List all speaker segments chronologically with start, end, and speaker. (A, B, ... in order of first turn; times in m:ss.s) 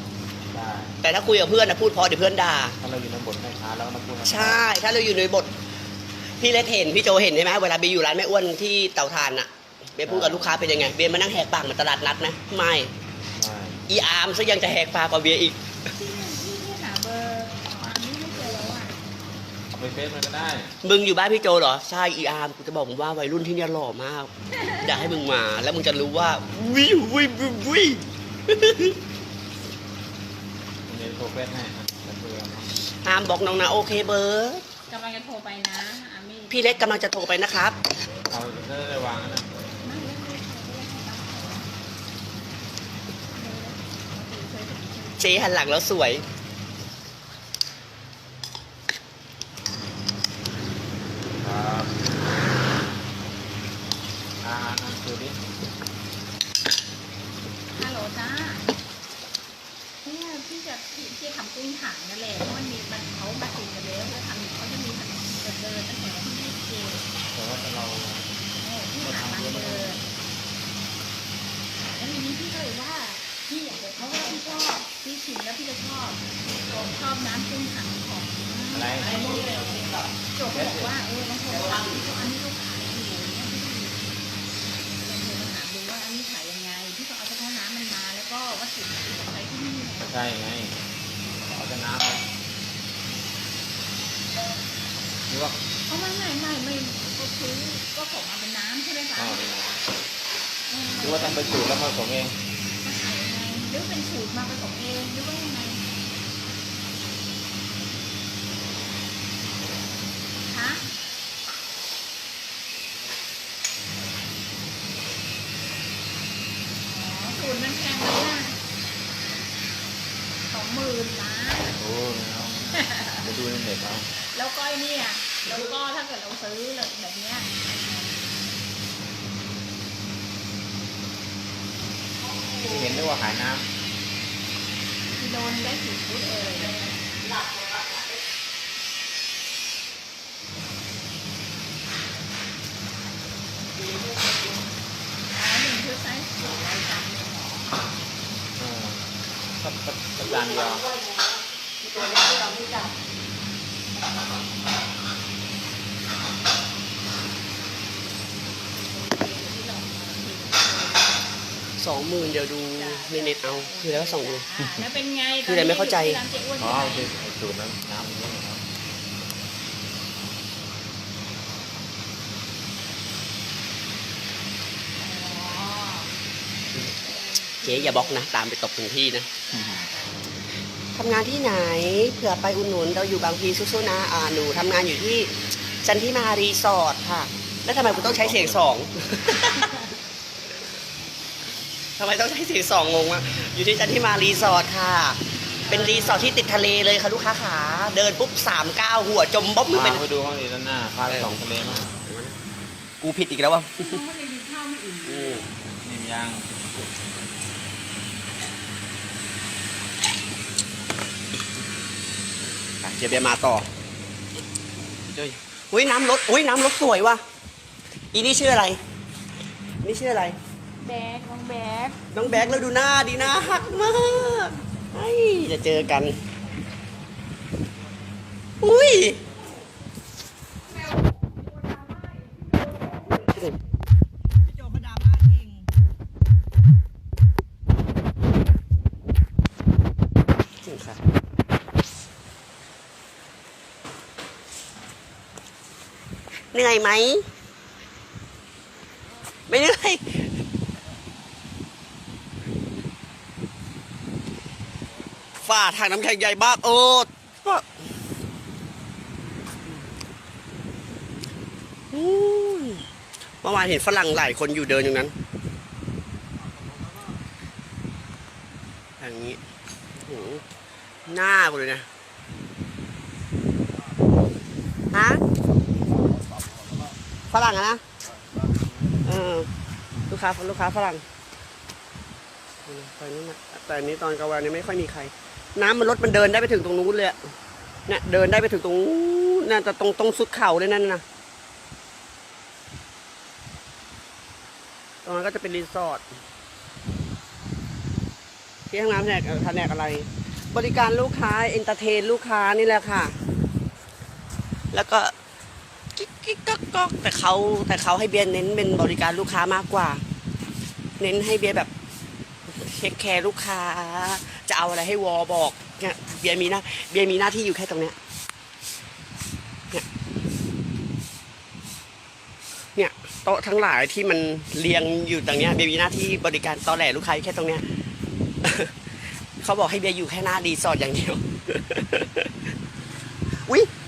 0:00.5-0:01.0 A
0:01.0-0:02.8 B
0:02.8-0:04.6 A
0:04.2-0:05.5 B
0:06.3-0:12.9 B
0:10.0-0:10.6 A
0:13.3-0:13.8 A
0:13.9-0:15.6 B
0:16.0-0:19.0 C
0:19.7-0:20.7 A
0:20.8-0:29.0 B
0:24.6-0:25.1 C
0:30.8-0:32.7 A
0:33.0-0:34.6 B
0:34.9-0:37.0 C
0:36.5-0:37.8 B
0:38.3-0:39.5 A
0:39.8-0:41.7 C
0:43.3-0:45.5 C
0:45.2-0:46.2 B
0:51.4-0:52.2 A
0:54.4-0:55.4 A
0:57.7-0:58.7 C
1:00.0-1:07.1 C
1:07.3-1:08.3 A
1:08.6-1:10.0 C
1:09.0-1:10.0 A
1:11.9-1:19.8 C
1:18.7-1:19.2 A
1:19.1-1:20.0 B
1:20.3-1:24.0 C
1:20.5-1:20.9 A
1:21.5-1:22.0 B
1:25.0-1:30.1 C
1:30.0-1:30.8 A
1:31.5-1:32.2 A
1:35.3-1:35.6 A
1:35.9-1:39.4 C
1:39.2-1:39.8 A
1:40.7-1:41.8 C
1:41.0-1:42.3 A
1:42.8-1:45.8 C
1:50.5-1:50.8 C
1:56.8-1:58.6 C
2:00.4-2:01.8 C
2:01.7-2:04.1 A
2:02.7-2:03.3 C
2:04.3-2:08.2 C
2:12.6-2:13.6 A
2:15.1-2:17.0 C
2:25.3-2:27.7 C
2:28.6-2:30.9 A
2:30.8-2:31.2 B
2:31.9-2:32.9 B
2:38.7-2:41.2 C
2:41.8-2:44.4 B
2:42.7-2:47.1 C
2:45.4-2:46.2 B
2:46.6-2:48.6 A
2:55.0-2:56.1 C
2:57.1-2:58.2 C
2:57.6-2:59.4 B
2:59.5-3:00.3 C
2:59.5-2:59.8 A
3:00.9-3:09.7 B
3:07.8-3:08.6 A
3:12.0-3:20.0 B
3:15.6-3:16.2 C
3:19.7-3:21.9 A
3:21.1-3:22.4 B
3:23.0-3:24.0 B
3:23.8-3:25.5 C
3:25.0-3:25.4 B
3:25.8-3:26.5 A
3:32.8-3:33.6 B
3:35.2-3:37.2 B
3:38.1-3:38.8 B
3:39.8-3:40.4 B
3:40.8-3:42.5 C
3:42.1-3:46.2 B
3:48.6-3:49.2 B
4:00.6-4:01.0 B
4:06.5-4:07.2 B
4:09.5-4:10.3 B
4:15.4-4:17.8 B
4:21.9-4:22.9 B
4:23.4-4:25.1 B
4:29.0-4:29.4 B
4:29.9-4:30.4 B
4:31.0-4:31.8 B
4:34.9-4:35.2 B
4:37.3-4:37.8 B
4:39.0-4:39.5 B
4:40.1-4:41.0 B
4:42.6-4:47.3 B
4:47.9-4:51.0 B
4:55.0-4:56.0 B
4:58.7-5:03.1 B
5:04.7-5:05.1 B
5:06.0-5:10.0 B
5:11.0-5:11.7 B
5:12.5-5:18.0 B
5:22.8-5:27.6 B
5:28.4-5:28.7 B
5:29.4-5:32.3 B